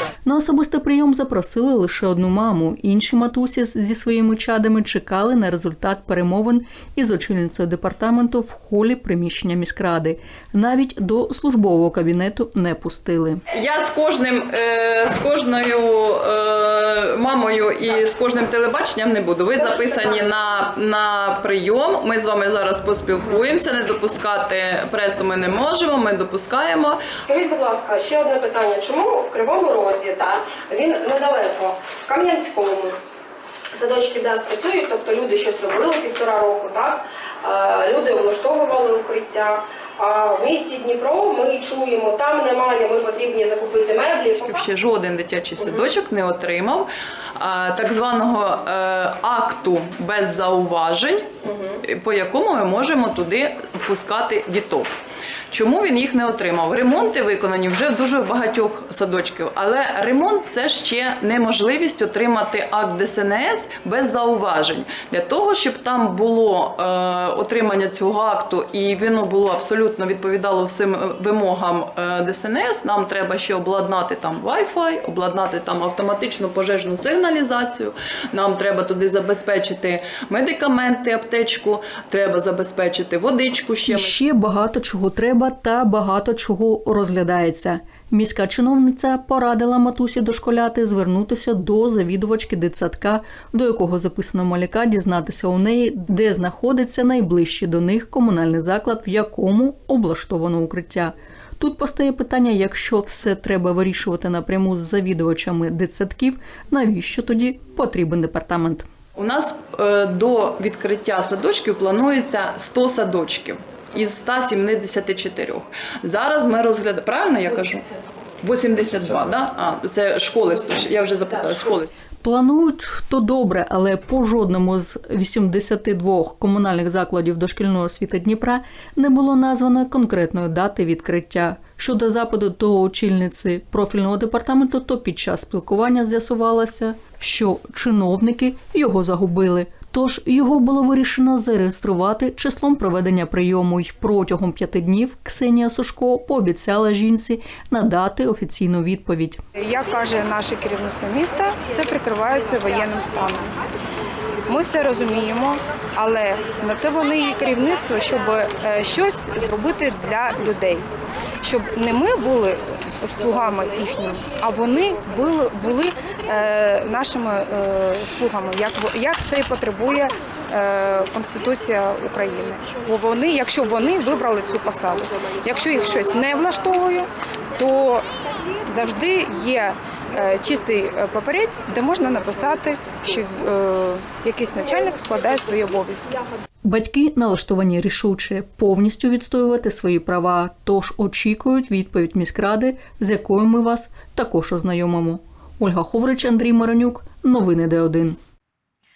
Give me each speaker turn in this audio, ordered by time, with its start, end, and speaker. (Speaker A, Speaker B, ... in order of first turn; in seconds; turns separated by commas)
Speaker A: 0.2-13.4, Speaker B: 13.5-27.0, Speaker C: 27.3-33.0, Speaker C: 33.7-44.6, Speaker B: 44.4-51.3, Speaker C: 45.6-45.8, Speaker C: 51.4-51.8, Speaker B: 51.8-54.9, Speaker B: 55.5-84.2, Speaker A: 83.8-108.9, Speaker B: 109.2-117.8, Speaker B: 118.4-121.9, Speaker A: 122.2-149.4, Speaker D: 149.5-153.6, Speaker D: 154.5-160.9, Speaker D: 161.4-178.1, Speaker D: 178.6-186.2, Speaker A: 186.6-198.2